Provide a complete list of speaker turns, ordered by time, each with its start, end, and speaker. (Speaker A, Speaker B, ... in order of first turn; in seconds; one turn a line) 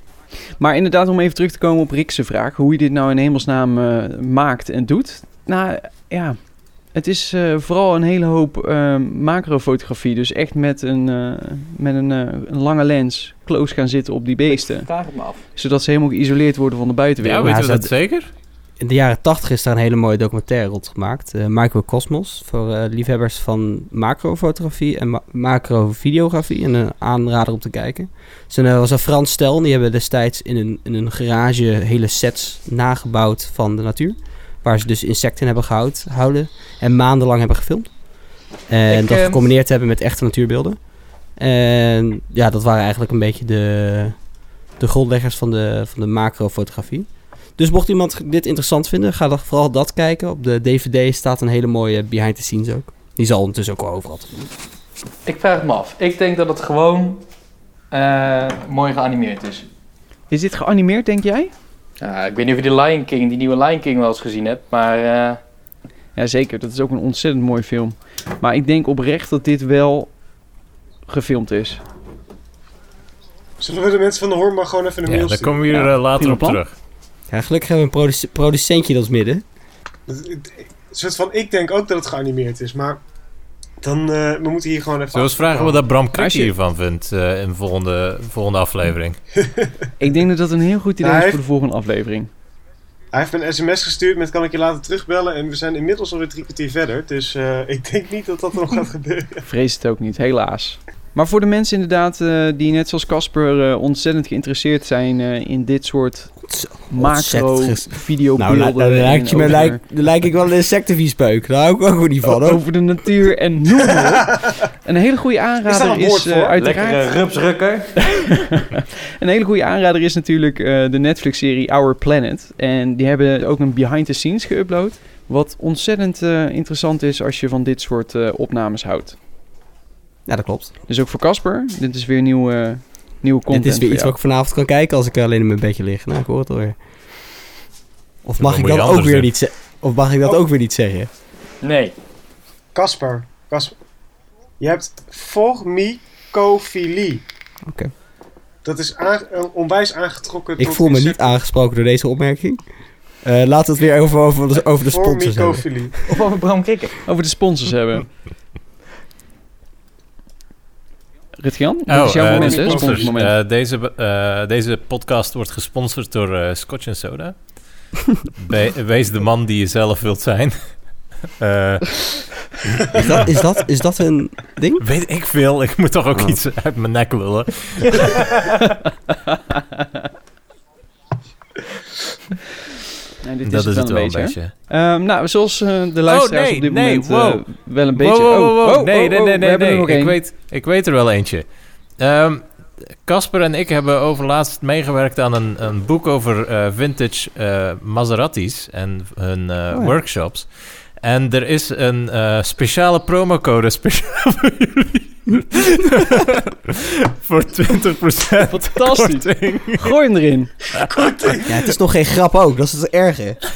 Speaker A: 0.6-17.6
Speaker B: 14.4-15.5
Speaker C: 17.2-18.3
Speaker D: 17.4-17.9
Speaker D: 18.8-38.0
Speaker D: 38.6-44.2
Speaker B: 38.9-39.4
Speaker D: 44.8-54.5
Speaker B: 55.3-57.2
Speaker B: 57.9-59.7
Speaker A: 60.3-61.5
Speaker B: 62.0-65.4
Speaker A: 66.2-70.2
Speaker A: 71.1-71.8
Speaker E: 73.6-75.8
Speaker C: 75.1-76.7
Speaker A: 75.8-76.6
Speaker D: 77.3-79.4
Speaker E: 80.1-83.0
Speaker E: 83.8-85.8
Speaker C: 85.1-89.2
Speaker A: 86.2-86.5
Speaker A: 90.0-92.3
Speaker E: 91.0-91.4
Speaker E: 93.1-99.4
Speaker A: 99.5-109.8
Speaker D: 106.4-112.7
Speaker A: 112.4-117.1
Speaker E: 115.7-116.9
Speaker B: 116.6-117.9
Speaker A: 118.1-129.2
Speaker D: 130.3-130.7
Speaker A: 130.9-134.2
Speaker D: 133.5-136.8
Speaker D: 138.2-141.1
Speaker C: 138.4-139.3
Speaker B: 141.6-142.0
Speaker E: 142.8-143.8
Speaker E: 144.6-147.2
Speaker D: 147.7-147.9
Speaker E: 148.6-151.4
Speaker D: 150.6-152.6
Speaker D: 153.2-155.9
Speaker E: 154.7-156.0
Speaker B: 156.1-157.0
Speaker A: 157.1-158.1
Speaker A: 161.4-163.3
Speaker C: 161.9-173.3
Speaker E: 162.2-163.2
Speaker D: 172.9-174.8
Speaker C: 174.8-178.5
Speaker A: 183.2-190.2
Speaker C: 183.4-184.5
Speaker C: 186.1-209.9
Speaker A: 208.5-210.5
Speaker C: 210.8-211.5
Speaker E: 210.9-211.4
Speaker D: 211.4-213.4